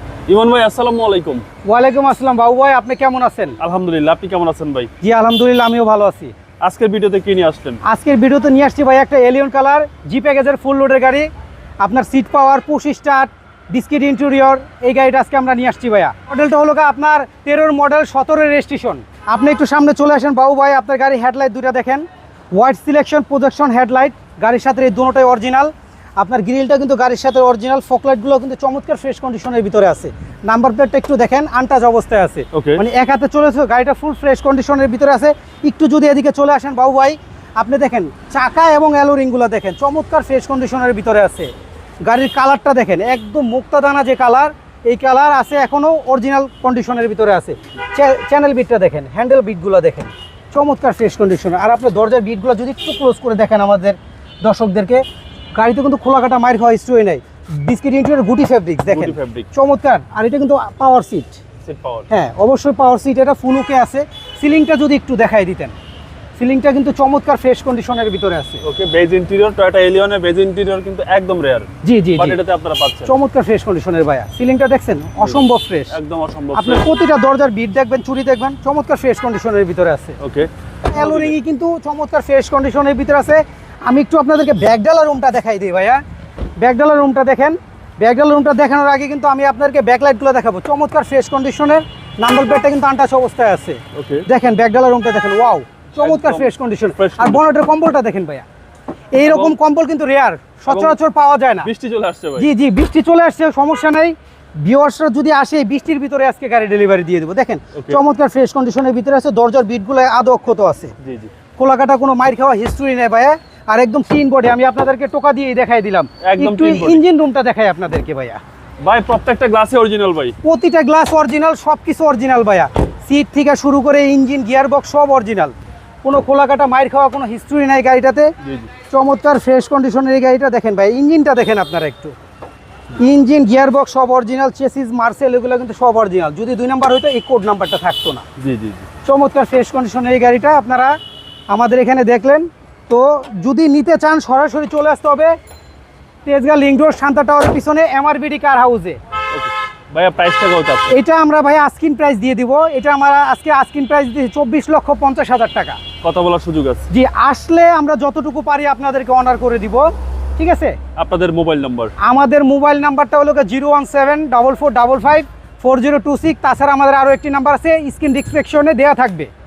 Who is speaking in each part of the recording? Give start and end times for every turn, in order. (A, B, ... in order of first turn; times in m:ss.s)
0:00.3-0:01.4 A
0:01.6-0:03.6 B
0:03.6-0:04.9 A
0:05.0-0:06.3 B
0:06.6-0:07.8 A
0:07.8-0:11.3 B
0:11.8-0:41.5 B
0:32.5-0:32.8 A
0:42.1-0:55.0 B
0:55.6-1:01.4 B
0:58.9-0:59.5 A
1:01.6-1:02.1 A
1:02.1-1:05.7 B
1:06.4-1:08.6 B
1:08.6-1:13.1 A
1:11.8-1:12.4 B
1:13.0-1:15.9 B
1:15.2-1:16.8 A
1:16.5-1:20.2 B
1:20.2-1:21.4 A
1:20.9-1:26.0 B
1:26.6-1:38.4 B
1:33.9-1:34.2 A
1:36.0-1:37.4 A
1:39.1-1:41.7 B
1:39.2-1:39.6 A
1:40.7-1:41.0 A
1:41.6-1:42.5 A
1:42.4-1:50.9 B
1:47.7-1:48.0 A
1:51.0-1:51.3 A
1:51.6-1:58.4 B
1:56.2-1:57.0 A
1:58.8-2:00.4 A
2:00.4-2:08.3 B
2:08.4-2:08.7 A
2:08.9-2:12.1 B
2:13.0-2:18.2 B
2:18.4-2:18.9 A
2:19.0-2:21.0 B
2:21.5-2:25.3 B
2:26.2-2:29.0 B
2:29.3-2:30.9 A
2:30.9-2:35.8 B
2:36.0-2:36.9 A
2:36.9-2:40.8 B
2:41.0-2:41.9 A
2:42.0-2:49.3 B